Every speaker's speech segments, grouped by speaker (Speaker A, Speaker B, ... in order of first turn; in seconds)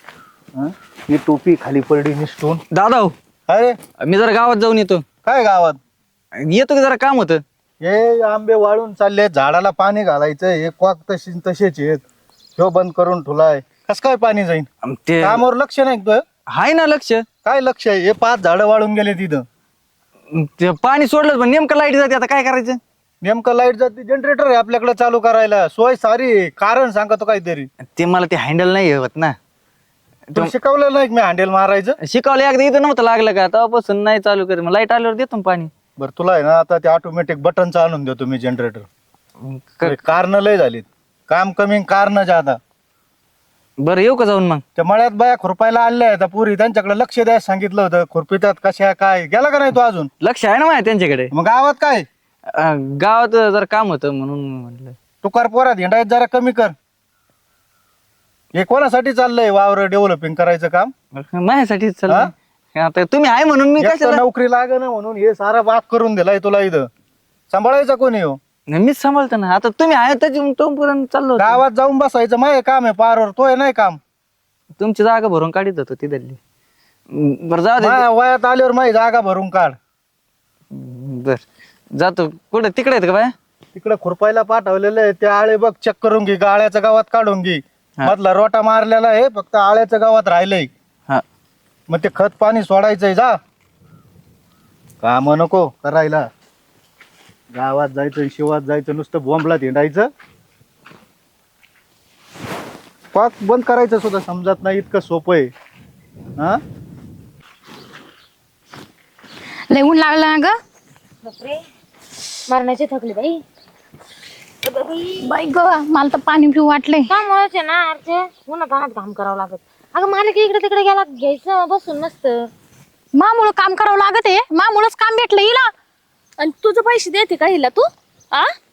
Speaker A: 0.5-2.6, 3.5-3.8, 5.2-5.8, 7.8-12.0, 12.6-14.7, 15.2-16.2, 17.4-19.4, 23.2-27.7, 30.3-32.0, 36.0-38.9, 39.8-42.6, 44.8-50.1, 51.3-52.0, 55.2-56.7, 58.5-60.9, 63.8-66.9, 67.5-68.4, 71.4-74.0, 77.8-79.8, 83.7-90.7, 91.9-93.4, 95.0-96.2, 97.5-100.1, 103.1-105.5
Speaker B: 2.7-3.1, 4.0-5.0, 6.4-7.4, 14.8-15.4, 16.5-17.2, 20.3-22.8, 27.9-29.4, 32.0-35.7, 39.4-40.0, 43.8-44.6, 50.2-51.3, 52.5-54.9, 61.1-64.2, 68.7-71.6, 74.8-76.4, 77.1-78.0, 80.7-81.4, 82.0-83.3
Speaker C: 109.7-110.5, 115.2-117.1, 123.2-125.7
Speaker D: 111.2-111.6, 112.5-113.4, 114.6-115.2, 117.1-122.5
Speaker E: 126.4-128.5